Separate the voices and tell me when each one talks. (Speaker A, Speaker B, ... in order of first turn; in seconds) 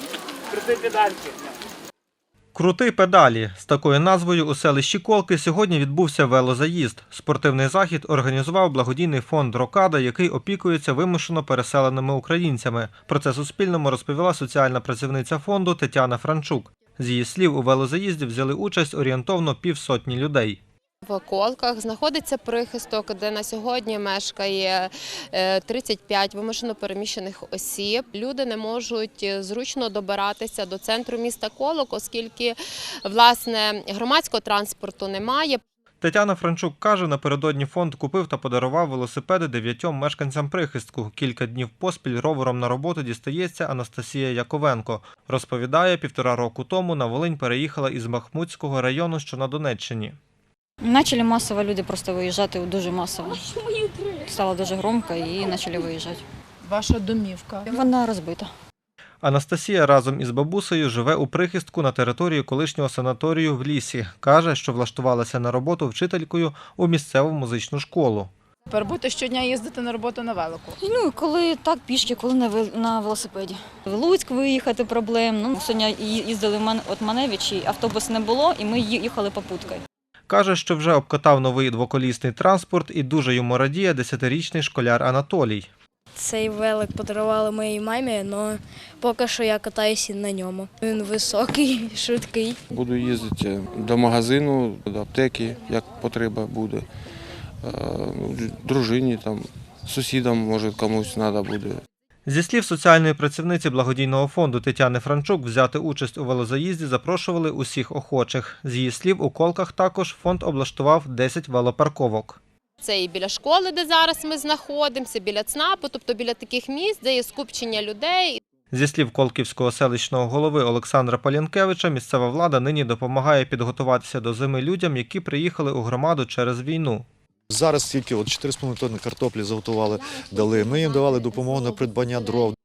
Speaker A: 2.5-20.6, 36.0-50.2, 59.2-68.3, 80.3-85.7, 102.2-112.4, 118.7-127.1
Speaker B: 21.1-35.6, 112.8-118.4
Speaker C: 50.8-56.2, 57.7-58.5, 70.8-79.8
Speaker D: 56.6-57.7, 68.7-70.8
Speaker E: 86.1-92.6
Speaker F: 92.7-96.8, 97.6-101.8
Speaker G: 127.5-132.6